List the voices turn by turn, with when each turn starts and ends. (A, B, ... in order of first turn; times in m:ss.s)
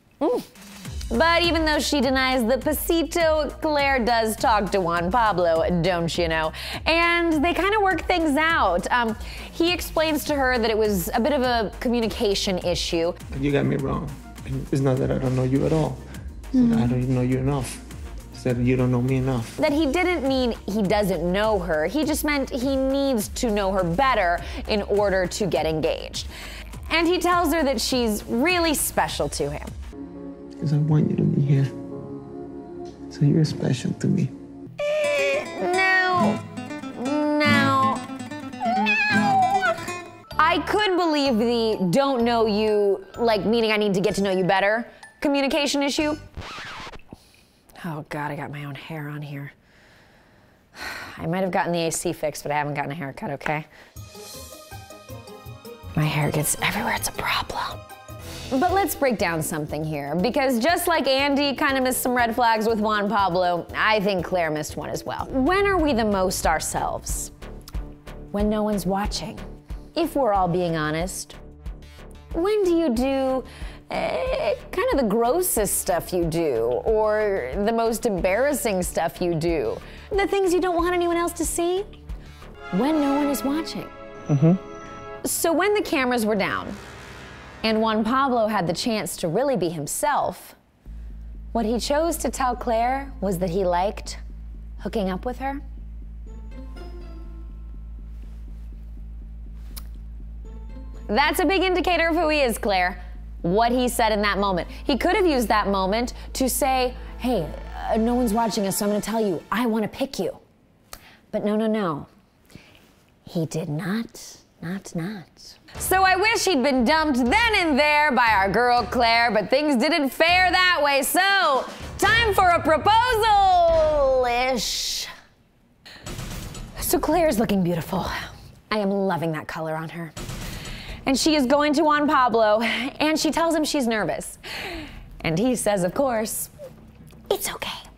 0:00.2-0:00.4 A
0:01.1-0:13.2 A
0:13.3-0:19.6 B
0:19.6-0:26.3 A
0:26.9-0:29.7 A
0:30.6-0:31.7 B
0:33.1-0:34.3 B
0:34.8-0:36.4 A
0:36.9-0:38.0 A
0:38.6-0:39.8 A
0:40.4-0:46.2 A
0:47.8-0:49.5 A
0:50.8-0:53.6 A
0:56.0-0:57.8 A
0:58.5-1:07.3 A
1:08.3-1:09.4 A
1:09.9-1:11.4 A
1:12.3-1:21.9 A
1:22.7-1:23.9 A
1:24.3-1:24.6 B
1:25.2-1:26.8 A
1:27.6-1:30.6 A
1:31.5-1:34.2 A
1:34.8-1:35.6 A
1:41.1-1:50.4 A
1:51.3-1:52.1 A
1:53.2-2:05.1 A
2:06.8-2:10.1 A
2:11.0-2:16.5 A
2:17.3-2:17.8 A